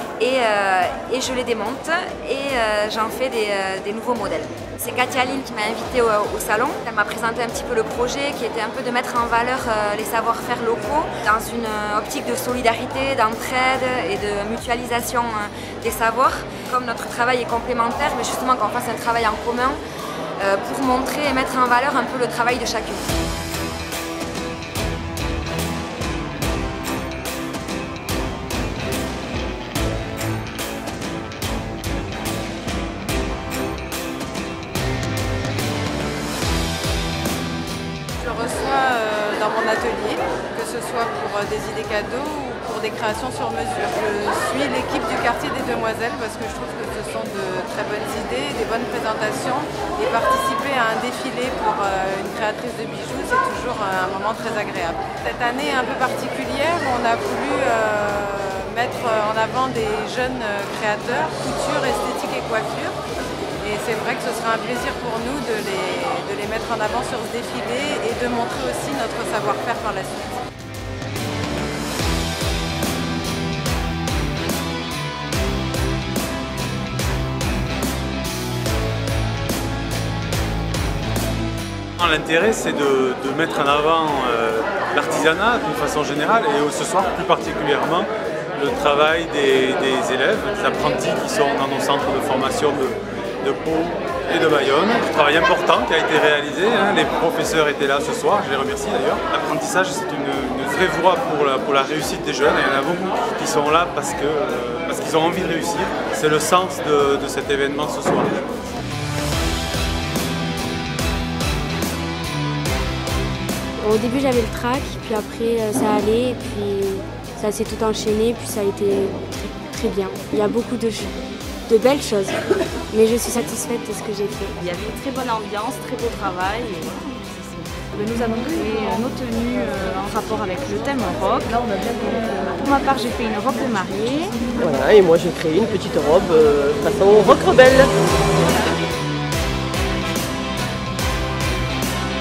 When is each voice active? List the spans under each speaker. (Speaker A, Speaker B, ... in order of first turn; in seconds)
Speaker A: 0.2-19.8, 20.4-23.1
Speaker B: 38.2-62.9, 63.6-70.4
Speaker C: 82.0-108.4
Speaker D: 113.8-124.6
Speaker E: 124.6-134.4
Speaker F: 134.6-137.9